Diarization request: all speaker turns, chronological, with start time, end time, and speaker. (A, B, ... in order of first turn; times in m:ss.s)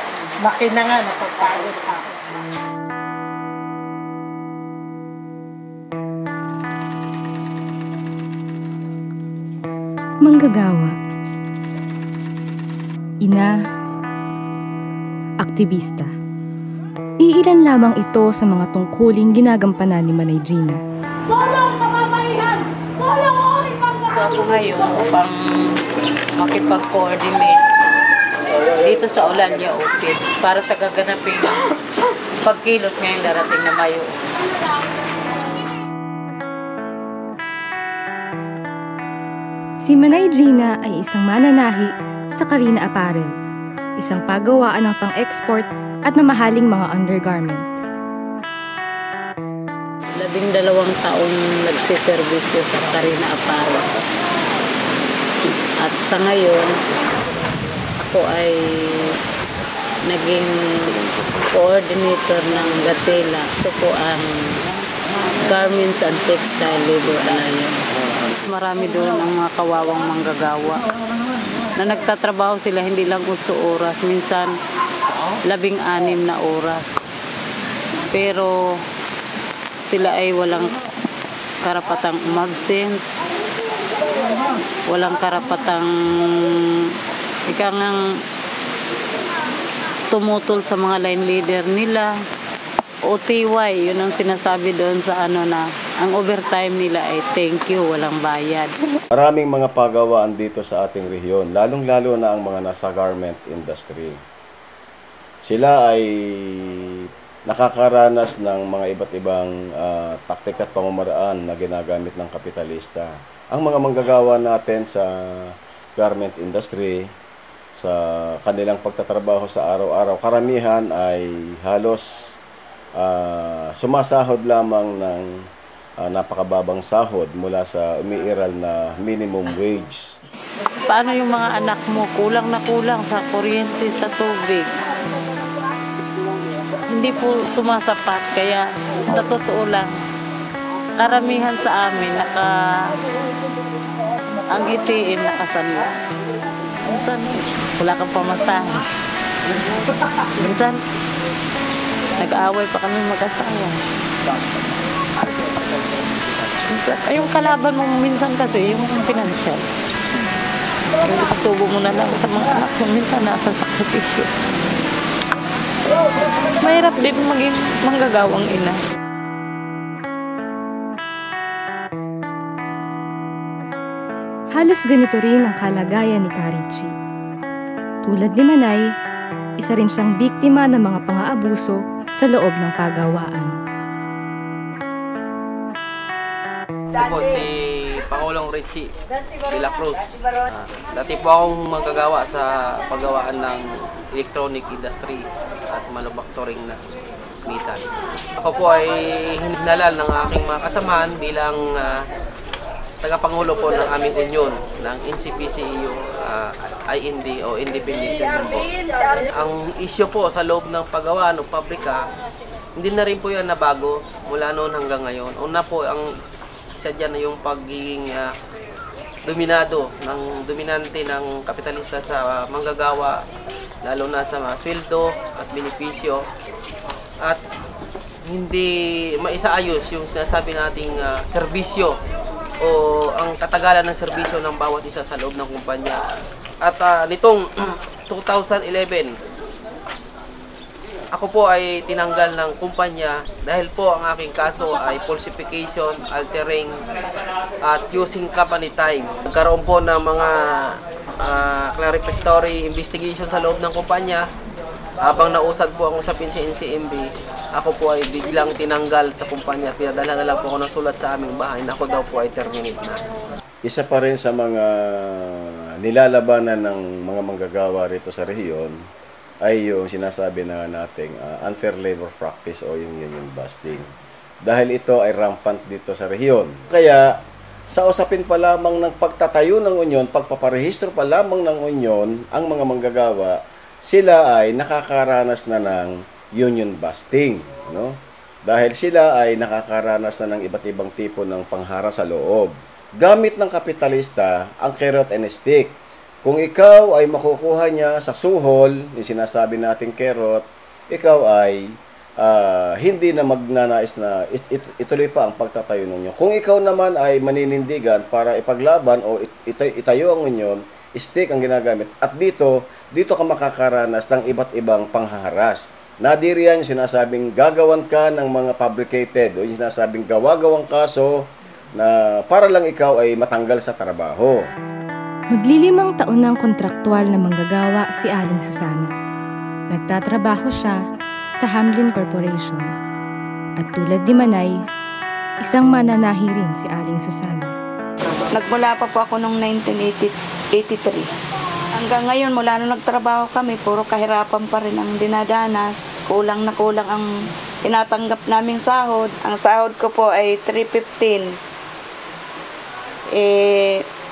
0:00.4-0:02.0 A
0:10.2-0:10.9 B
0:13.2-0:13.5 B
0:15.4-0:16.1 B
0:17.2-0:20.8 B
0:21.3-0:24.0 A
0:24.1-0:25.7 C
0:26.4-0:27.6 C
0:28.7-0:31.5 C
0:32.4-0:34.1 C
0:39.8-0:43.3 B
0:44.0-0:47.8 B
0:50.2-0:53.8 C
0:55.8-0:56.7 C
0:58.0-0:58.5 C
1:00.1-1:01.0 C
1:01.5-1:04.3 C
1:05.4-1:10.8 C
1:11.8-1:14.5 C
1:15.5-1:16.9 C
1:18.1-1:18.5 C
1:19.9-1:20.7 C
1:21.6-1:23.0 C
1:24.9-1:26.6 C
1:27.5-1:28.0 C
1:30.1-1:32.1 C
1:33.0-1:38.7 C
1:39.1-1:44.2 D
1:45.4-1:57.1 D
1:57.8-2:02.4 D
2:03.0-2:05.5 D
2:06.0-2:10.2 D
2:10.9-2:14.7 C
2:16.9-2:19.9 C
2:21.0-2:22.5 C
2:24.5-2:25.9 C
2:26.9-2:28.8 C
2:30.4-2:30.8 C
2:32.2-2:33.8 C
2:36.6-2:39.6 C
2:41.0-2:44.3 C
2:46.6-2:48.8 C
2:54.5-2:56.9 B
2:58.0-2:58.8 B
2:59.6-3:03.5 B
3:06.9-3:08.9 E
3:09.5-3:16.8 E
3:17.4-3:17.9 E
3:18.4-3:22.0 E
3:23.0-3:28.7 E
3:29.4-3:32.0 E
3:32.8-3:36.1 E
3:36.8-3:38.3 E
3:39.2-3:43.2 E
3:43.8-3:46.2 E
3:48.2-3:51.9 E
3:52.6-3:56.0 E
3:56.6-3:59.1 E
4:01.1-4:06.7 E
4:07.6-4:14.2 E
4:15.0-4:17.0 E
4:17.5-4:23.0 E
4:23.6-4:28.8 D
4:29.4-4:33.9 D
4:34.4-4:37.1 D
4:37.7-5:24.5 D
5:25.3-5:28.9 B
5:29.7-5:30.8 B
5:31.4-5:32.7 B
5:33.6-5:34.6 B
5:35.4-5:37.5 B
5:38.3-5:41.1 F
5:41.7-5:47.1 F
5:47.6-5:51.3 F
5:53.1-5:53.8 F